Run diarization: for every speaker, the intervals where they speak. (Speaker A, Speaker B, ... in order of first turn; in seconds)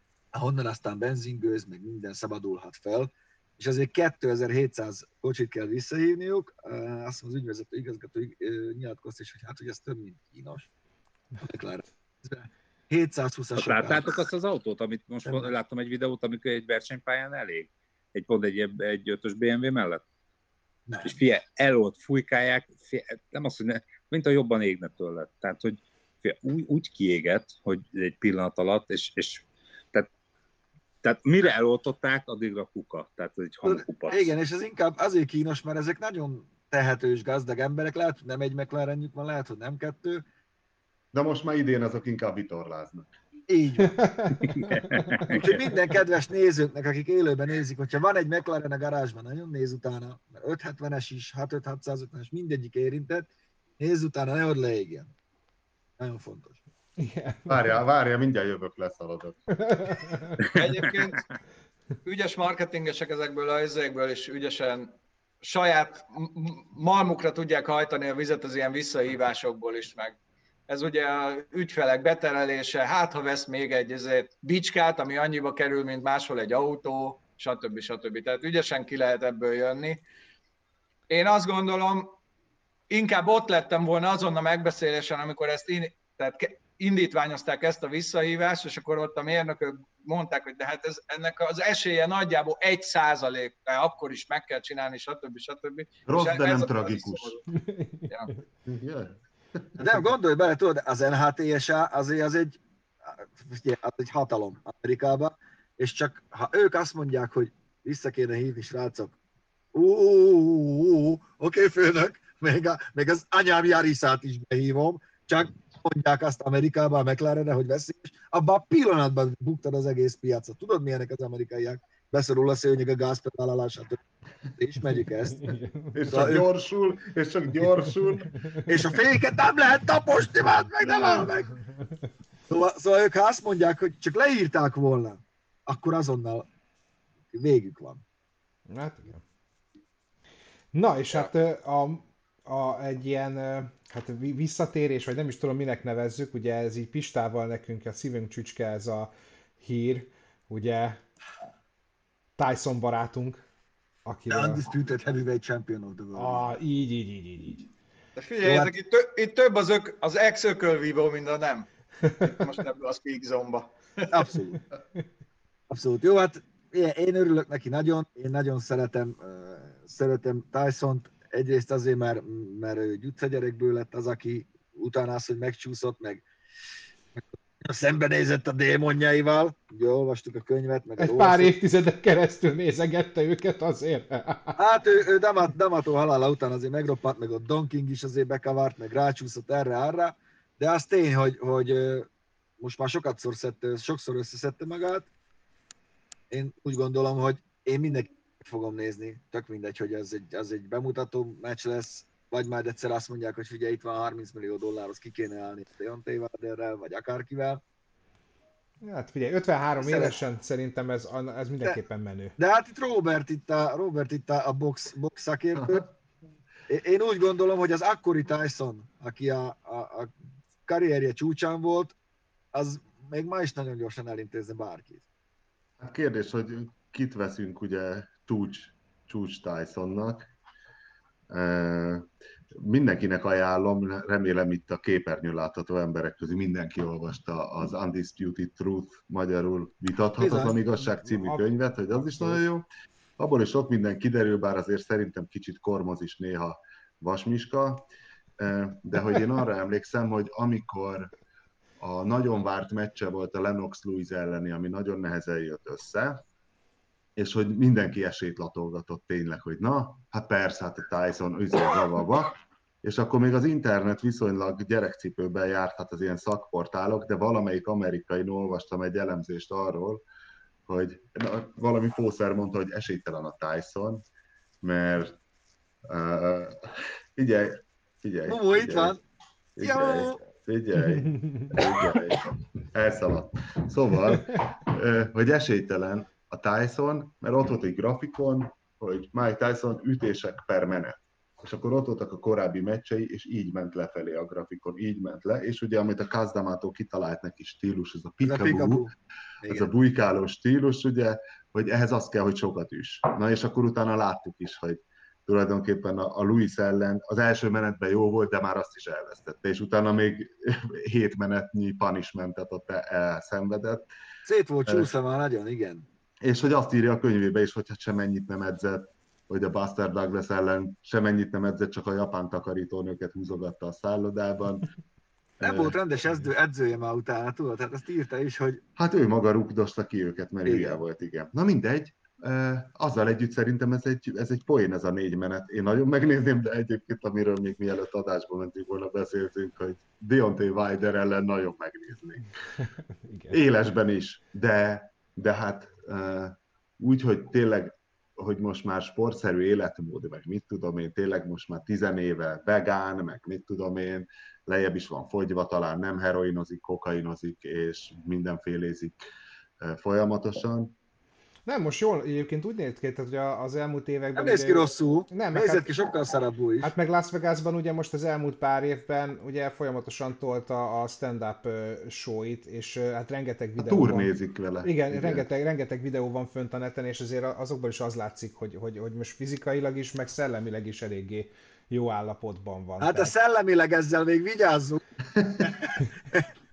Speaker A: 0.3-10.7, 11.4-14.2, 15.3-15.5, 20.9-21.2, 33.6-40.2, 43.5-44.0, 45.3-55.1, 56.0-56.6, 99.8-109.2, 109.7-124.0, 124.6-125.5, 126.1-126.5, 128.7-131.5, 132.5-136.5, 137.3-138.0, 154.3-156.5, 158.4-158.7, 164.1-164.6, 165.7-176.2, 177.2-181.5, 184.6-192.1, 192.6-195.1, 196.3-207.6, 209.8-210.2, 212.4-215.8, 216.7-220.1, 220.7-221.9, 222.5-225.0, 240.2-240.5, 278.3-279.0, 279.6-280.2, 298.2-298.9, 299.4-299.7, 314.2-315.9, 325.4-328.6, 330.5-330.8, 364.1-366.7, 382.8-384.8, 385.4-386.2
Speaker B: 13.6-20.0, 21.1-30.1, 31.0-34.3, 44.4-45.8, 60.4-60.7
Speaker C: 41.1-43.1, 57.5-59.4, 96.1-97.3, 98.7-99.9, 125.9-128.3, 225.8-230.3, 231.3-242.7, 243.2-251.1, 251.8-256.2, 257.2-270.0, 270.7-274.0, 274.6-275.2, 275.9-279.0, 279.6-298.9, 299.5-313.9, 316.2-324.7, 325.4-325.8, 328.8-342.3, 343.3-359.0, 359.6-360.7, 373.6-375.3, 385.2-385.6
Speaker D: 43.8-44.8, 57.0-57.7, 59.6-60.4, 97.5-98.4, 125.4-126.0, 130.9-132.0, 138.7-139.2, 140.7-151.0, 152.4-153.4, 154.1-154.6, 156.2-157.7, 162.0-162.5, 181.0-184.6, 208.8-212.3, 240.9-241.4, 241.9-242.4, 280.9-281.6, 343.0-343.4, 361.4-365.7, 366.6-374.1, 374.6-383.1
Speaker E: 60.6-61.2, 62.0-64.9, 65.4-70.2, 70.7-80.0, 81.1-82.2, 82.9-97.4, 158.2-161.7, 162.2-164.1